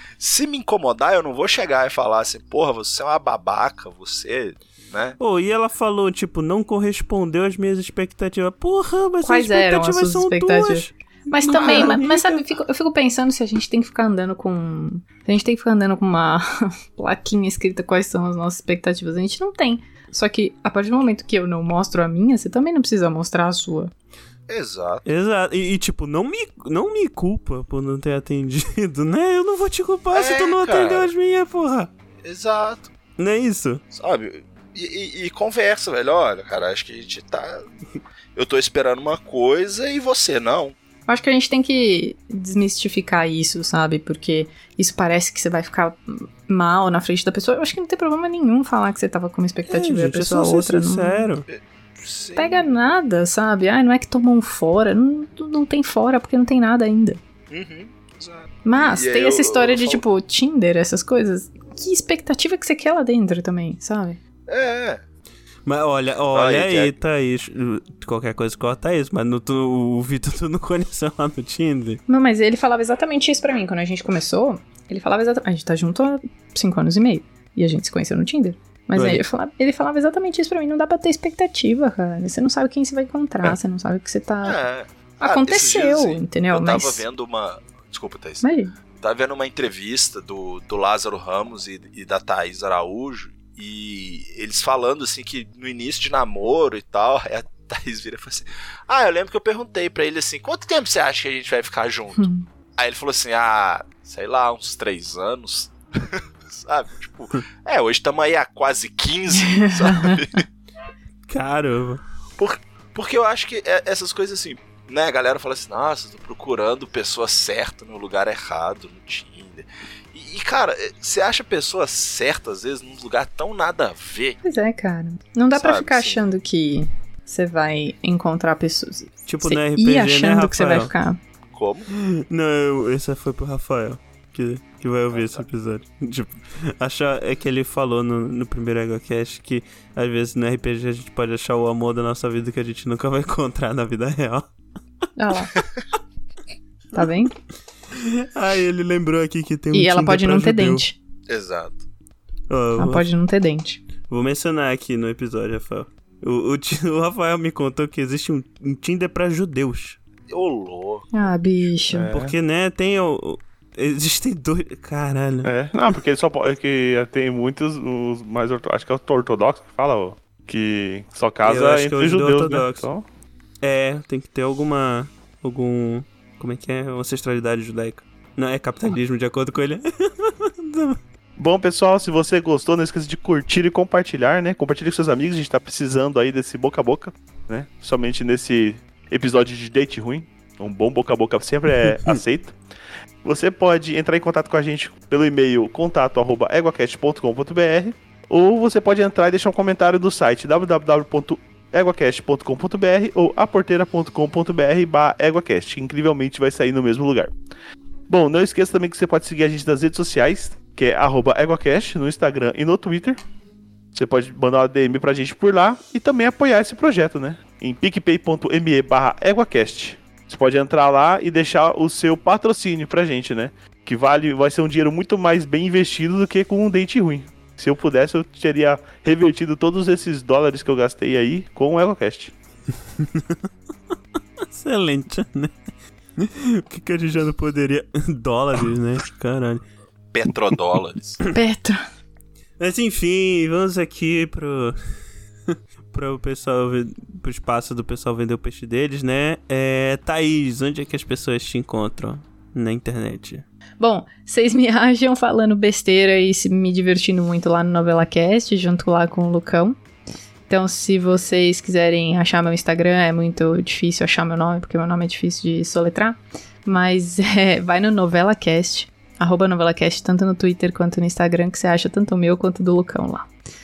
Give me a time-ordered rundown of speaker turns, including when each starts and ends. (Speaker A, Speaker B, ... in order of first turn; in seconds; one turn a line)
Speaker A: 0.2-5.2
Speaker B: 5.2-12.4
Speaker C: 9.2-23.9
Speaker A: 11.5-12.2
Speaker A: 24.5-25.1
Speaker B: 25.1-31.9
Speaker A: 30.1-31.1
Speaker A: 32.2-32.9
Speaker B: 33.2-33.8
Speaker A: 33.9-37.6
Speaker A: 38.3-40.8
Speaker C: 41.1-51.3
Speaker B: 49.7-51.5
Speaker A: 51.5-52.7
Speaker C: 52.3-57.2
Speaker A: 57.5-60.0
Speaker C: 58.6-64.2
Speaker A: 64.5-65.0
Speaker B: 65.6-72.0
Speaker A: 66.3-66.9
Speaker C: 72.1-84.6
Speaker B: 78.9-79.2
Speaker A: 84.4-88.5
Speaker C: 85.2-87.0
Speaker C: 88.4-88.7
Speaker A: 89.0-110.4
Speaker C: 102.2-102.4
Speaker C: 109.4-110.2
Speaker B: 111.3-112.0
Speaker A: 112.4-124.4
Speaker C: 124.4-131.2
Speaker A: 125.5-126.3
Speaker B: 129.2-130.9
Speaker A: 131.5-131.9
Speaker B: 131.9-144.5
Speaker A: 135.1-135.4
Speaker C: 145.2-145.5
Speaker C: 146.9-147.3
Speaker B: 147.9-150.8
Speaker C: 149.7-150.9
Speaker A: 151.3-151.8
Speaker B: 152.5-153.1
Speaker C: 152.8-153.8
Speaker B: 154.0-160.0
Speaker A: 160.3-161.1
Speaker C: 161.1-162.1
Speaker D: 161.9-162.3
Speaker B: 162.1-165.5
Speaker D: 165.4-173.0
Speaker B: 171.4-172.9
Speaker B: 173.6-181.0
Speaker D: 181.4-192.6
Speaker B: 191.8-192.2
Speaker D: 193.2-207.3
Speaker D: 208.1-213.2
Speaker D: 213.9-232.3
Speaker B: 233.0-233.4
Speaker B: 234.5-235.5
Speaker B: 236.2-239.6
Speaker A: 240.1-241.2
Speaker C: 241.3-241.8
Speaker B: 242.6-244.8
Speaker B: 245.5-253.4
Speaker C: 253.8-259.8
Speaker C: 260.5-273.3